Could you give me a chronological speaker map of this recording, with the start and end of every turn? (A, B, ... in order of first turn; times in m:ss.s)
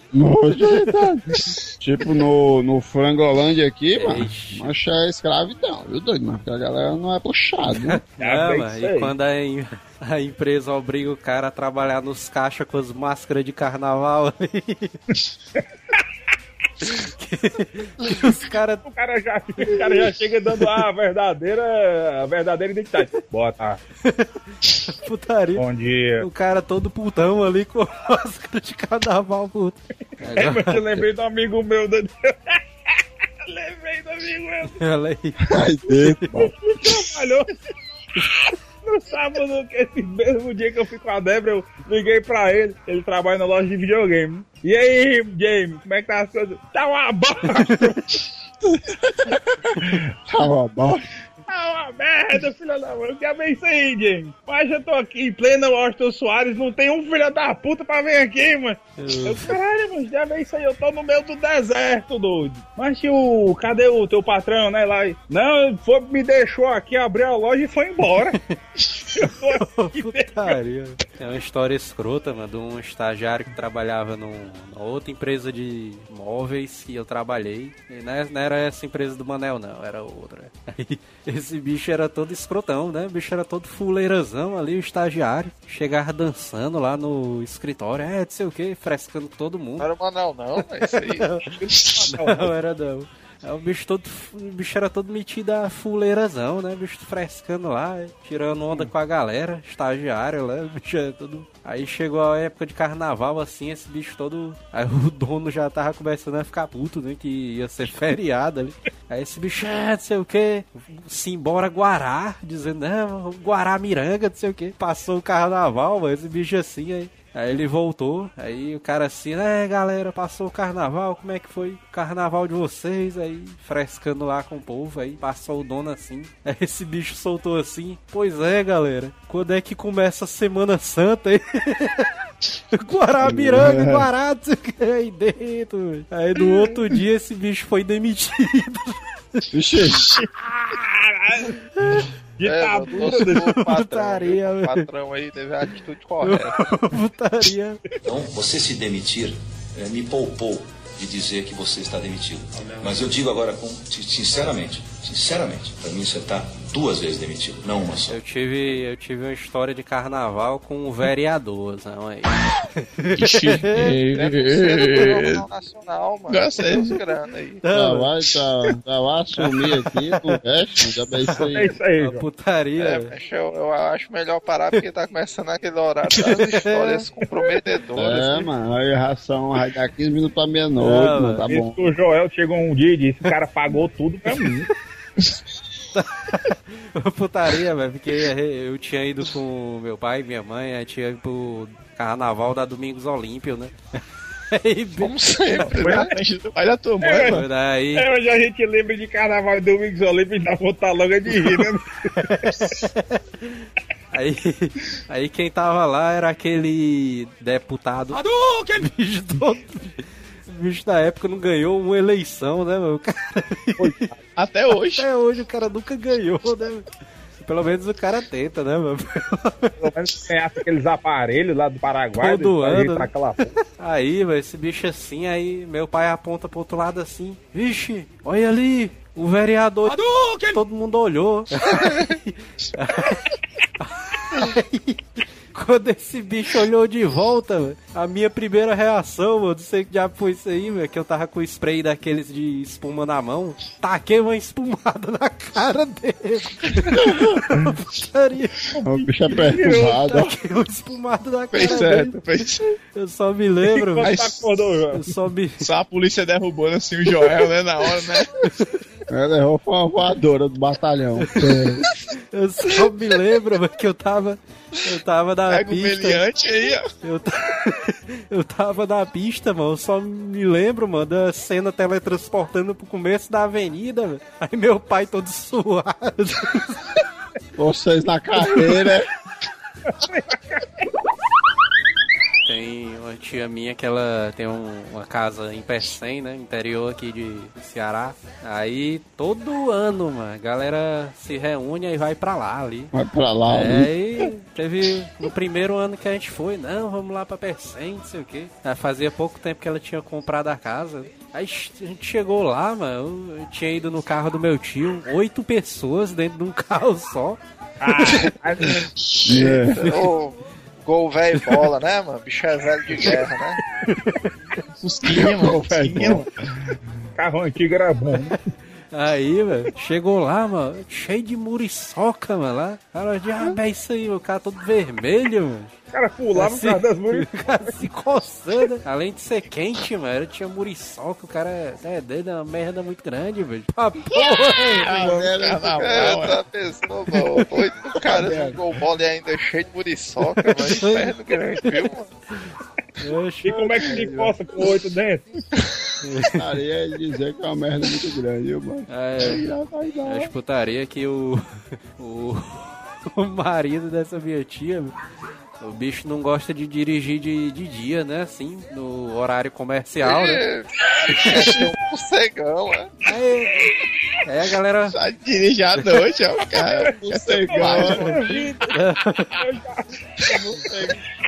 0:00.1-0:08.0 A
0:04.0-0:04.7 B
0:07.8-0:15.0 B
0:08.2-0:09.1 C
0:15.6-0:15.9 C
0:16.8-0:18.8 B
0:18.8-0:23.8 C
0:24.0-0:25.6 B
0:25.6-0:26.2 C
0:26.2-0:31.0 B
0:30.4-0:32.6 C
0:33.4-0:34.8 C
0:34.8-0:36.5 B
0:35.4-0:36.5 A
0:36.6-0:37.5 C
0:38.8-0:48.2 C
0:48.9-0:51.0 A
0:51.5-1:08.4 C
0:59.0-0:59.5 B
1:09.1-1:10.6 C
1:09.2-1:29.9 B
1:29.8-1:31.3 D
1:30.9-1:31.4 B
1:31.4-1:32.5 C
1:31.8-1:32.0 E
1:32.1-2:12.1 B
2:12.7-2:19.4 B
2:13.3-2:13.8 A
2:13.3-2:13.8 E
2:19.5-2:20.1 A
2:20.6-2:21.6 C
2:21.8-2:22.1 B
2:22.4-2:23.5 C
2:22.4-2:26.6 D
2:23.0-2:24.8 B
2:26.2-2:27.8 B
2:28.0-2:38.2 F
2:38.1-2:43.9 B
2:43.1-2:45.4 E
2:44.1-2:47.6 D
2:46.3-2:47.0 E
2:47.6-2:48.1 B
2:47.7-2:51.7 A
2:49.4-2:50.4 B
2:51.3-2:53.1 B
2:51.5-2:52.2 C
2:52.8-2:58.5 D
2:56.2-2:57.1 B
2:57.9-3:01.9 A
3:00.8-3:01.4 B
3:01.5-3:04.7 C
3:05.9-3:13.7 B
3:14.5-3:15.2 B
3:15.0-3:16.1 D
3:15.5-3:17.4 E
3:15.7-3:16.1 C
3:17.0-3:17.4 C
3:17.1-3:18.0 B
3:17.9-3:22.5 C
3:22.2-3:34.0 B
3:33.8-3:34.1 C
3:34.4-3:35.0 E
3:34.8-3:36.9 B
3:37.4-3:39.8 B
3:39.8-3:43.6 C
3:42.2-3:43.1 B
3:43.8-4:08.6 B
4:08.7-4:10.0 C
4:08.8-4:10.3 A
4:09.6-4:12.2 B
4:11.5-4:12.6 E
4:12.9-4:14.1 B
4:13.8-4:15.1 C
4:14.0-4:14.4 E
4:14.9-4:15.6 B
4:15.6-4:18.3 E
4:19.1-4:21.8 A
4:21.2-4:21.6 B
4:22.3-4:26.2 B
4:25.5-4:26.9 E
4:27.0-4:36.9 B
4:37.6-4:39.1 A
4:39.9-4:40.8 C
4:42.4-4:52.9 B
4:52.9-4:54.3 A
4:53.5-5:07.4 B
5:07.8-5:08.9 C
5:09.0-5:09.6 E
5:09.2-5:09.8 A
5:09.7-5:13.6 D
5:13.9-5:14.3 B
5:14.8-5:16.3 E
5:15.1-5:16.2 A
5:15.8-5:16.2 C
5:17.2-5:18.4 C
5:18.9-5:25.7 B
5:25.9-5:27.8 C
5:26.4-5:34.9 B
5:34.1-5:36.3 A
5:34.7-5:36.4 E
5:35.8-5:42.1 D
5:38.0-5:38.6 A
5:40.5-5:41.7 B
5:42.4-5:44.3 B
5:43.4-5:45.2 C
5:46.0-5:46.4 B
5:46.3-5:50.3 A
5:48.9-5:49.4 B
5:50.0-5:51.4 B
5:52.0-5:55.0 B
5:55.6-6:00.4 B
6:00.0-6:02.9 D
6:01.1-6:01.6 B
6:03.0-6:05.0 B
6:04.9-6:08.3 E
6:06.8-6:08.8 C
6:06.9-6:08.4 A
6:07.7-6:09.4 B
6:09.3-6:09.8 C
6:10.2-6:11.0 A